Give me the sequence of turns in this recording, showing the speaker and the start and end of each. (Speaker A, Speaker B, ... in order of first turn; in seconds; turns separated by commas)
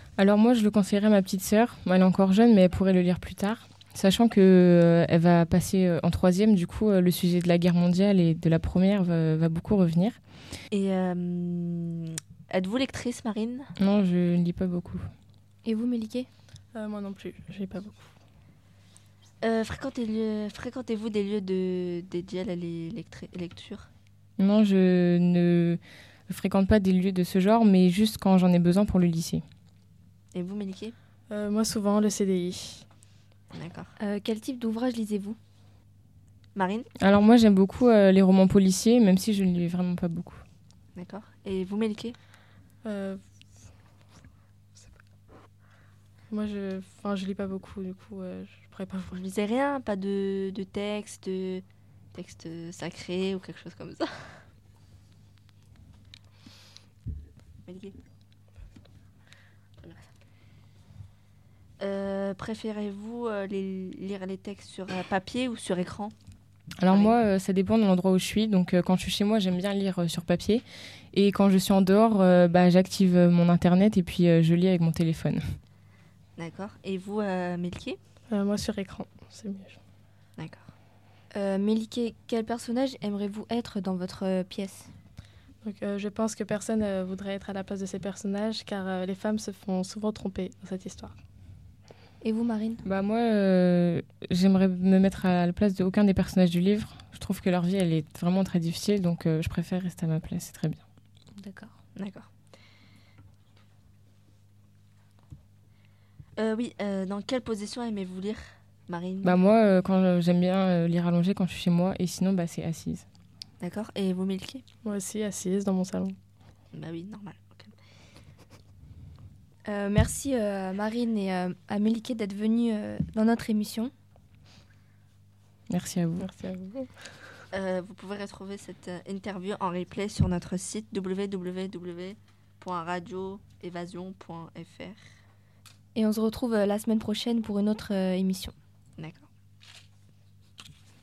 Speaker A: 0.2-10.2, Speaker B: 10.7-13.7, Speaker A: 13.8-15.1, Speaker C: 15.7-16.3, Speaker D: 16.7-18.1, Speaker B: 19.4-23.9, Speaker A: 24.4-29.4, Speaker B: 30.3-30.9, Speaker D: 31.3-32.9, Speaker B: 33.5-33.9, Speaker C: 34.0-35.4, Speaker B: 36.5-36.9, Speaker A: 37.0-40.4, Speaker B: 41.0-42.2, Speaker D: 42.8-43.2, Speaker D: 46.3-49.2, Speaker B: 49.1-54.1, Speaker B: 57.6-58.0, Speaker B: 59.8-60.1, Speaker B: 61.8-66.1, Speaker A: 66.8-75.4, Speaker B: 66.9-67.2, Speaker B: 76.4-78.0, Speaker D: 78.3-79.8, Speaker B: 80.4-80.7, Speaker C: 81.3-84.9, Speaker D: 85.6-91.2, Speaker C: 92.2-92.8, Speaker A: 92.8-100.8, Speaker C: 101.4-101.7, Speaker B: 102.0-102.3, Speaker B: 106.4-109.4, Speaker A: 109.2-113.0, Speaker B: 113.6-114.6, Speaker D: 114.8-116.2, Speaker B: 116.7-117.7, Speaker C: 119.7-123.9, Speaker A: 125.7-126.3, Speaker D: 126.2-126.9, Speaker B: 127.5-135.0, Speaker C: 135.9-138.5, Speaker B: 139.0-139.3